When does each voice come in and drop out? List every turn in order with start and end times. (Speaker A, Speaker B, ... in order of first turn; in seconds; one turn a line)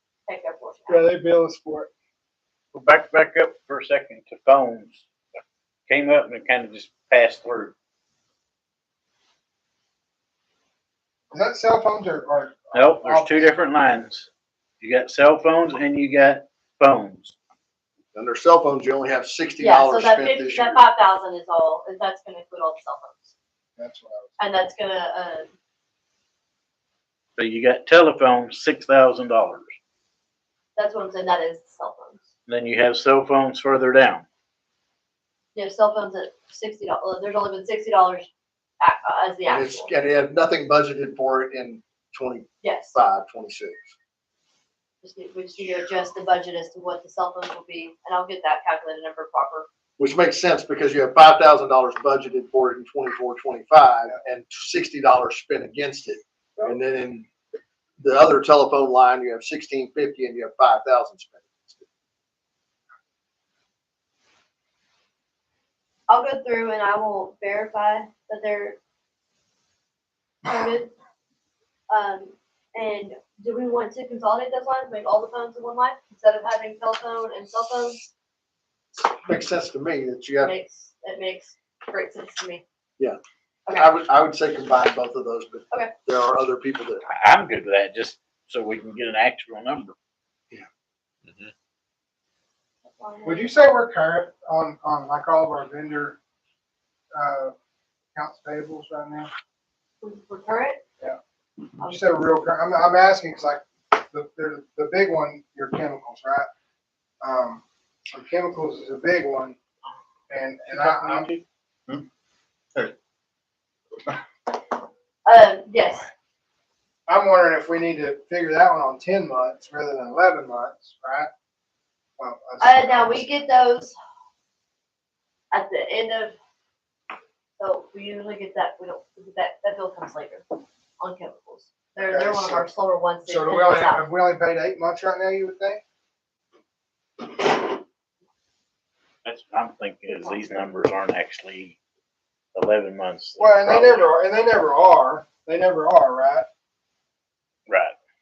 Speaker A: 0.3-1.1
Speaker B: 0.9-1.9
Speaker C: 2.7-5.0
Speaker C: 5.9-7.7
Speaker B: 11.3-13.5
Speaker C: 12.7-14.3
Speaker C: 14.8-17.3
Speaker D: 18.1-20.8
Speaker A: 19.6-23.3
Speaker B: 23.8-24.4
Speaker A: 24.4-25.5
Speaker C: 27.4-29.7
Speaker A: 30.8-32.2
Speaker C: 32.5-34.2
Speaker A: 35.5-38.3
Speaker A: 38.8-39.9
Speaker D: 39.5-43.8
Speaker A: 42.6-42.9
Speaker A: 45.0-49.7
Speaker D: 50.0-57.3
Speaker D: 58.0-61.9
Speaker A: 66.1-68.8
Speaker A: 70.4-70.9
Speaker A: 71.9-78.0
Speaker D: 79.0-80.5
Speaker A: 80.4-82.6
Speaker D: 83.0-87.0
Speaker C: 87.1-89.9
Speaker A: 93.0-93.5
Speaker B: 93.2-96.2
Speaker B: 97.1-97.5
Speaker B: 98.1-99.3
Speaker A: 100.0-100.8
Speaker B: 101.8-106.5
Speaker B: 107.2-109.6
Speaker B: 110.3-111.3
Speaker C: 110.7-112.0
Speaker A: 115.2-116.1
Speaker B: 117.1-121.3
Speaker B: 122.2-123.3
Speaker A: 122.6-124.0
Speaker A: 125.5-126.3
Speaker A: 127.6-130.5
Speaker A: 131.0-134.1
Speaker B: 132.0-132.7
Speaker B: 133.2-135.8
Speaker C: 139.2-141.8
Speaker C: 142.5-144.1
Speaker B: 143.4-146.4
Speaker C: 147.7-147.9